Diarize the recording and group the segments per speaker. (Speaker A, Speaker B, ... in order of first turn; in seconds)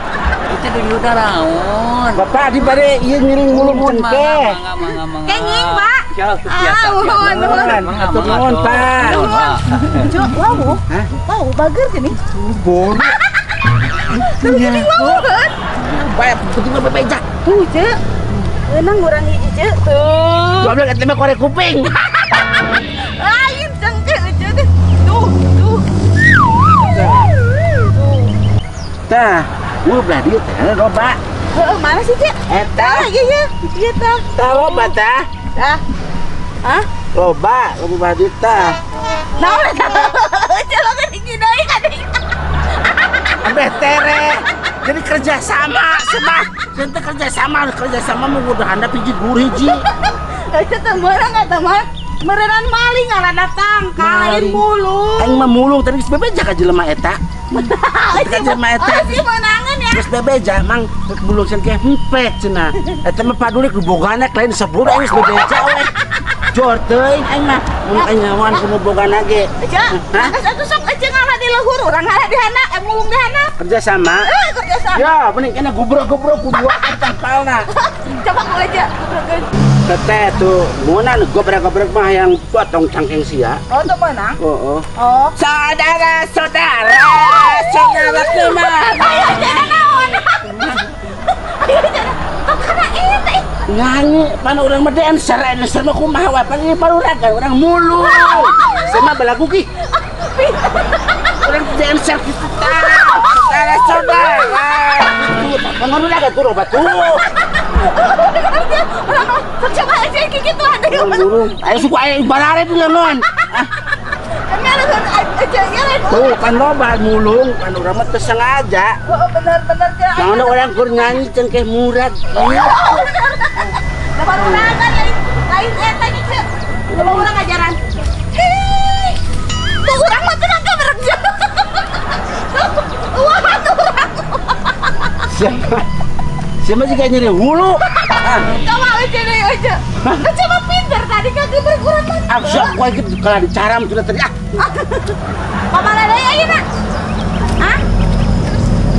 Speaker A: 0.5-2.3, 3.5-10.0
Speaker B: 2.1-4.6, 7.2-9.4, 12.3-13.2, 14.1-15.2, 15.8-17.2, 20.6-22.0, 26.8-27.3, 29.1-31.2, 32.5-33.1, 34.4-35.3, 37.1-38.8, 43.4-49.9, 54.0-54.6, 55.2-59.3, 59.9-65.9, 66.5-70.4, 73.6-74.3, 74.9-77.7, 79.8-83.6, 84.4-90.9, 93.7-99.7, 101.3-107.3, 110.9-113.7, 116.1-119.0, 120.2-123.1, 124.3-124.8, 126.9-127.3, 135.2-135.9, 136.6-138.5, 140.0-140.3, 142.3-144.3
Speaker C: 5.2-7.9, 9.0-12.2, 13.2-15.6, 17.4-18.0, 18.5-20.8, 22.6-25.9, 26.6-28.3, 31.5-35.0, 35.6-35.8, 39.4-43.6, 49.5-55.5, 57.5-60.1, 65.2-65.8, 67.9-68.7, 69.6-73.5, 74.2-75.2, 77.7-79.5, 83.7-84.4, 85.0-85.4, 87.0-93.5, 97.9-99.1, 99.9-101.6, 102.6-105.1, 107.5-111.8, 114.1-116.6, 119.1-121.2, 122.3-127.8, 128.3-129.2, 129.8-135.2, 138.3-142.8, 144.6-145.2, 145.7-146.7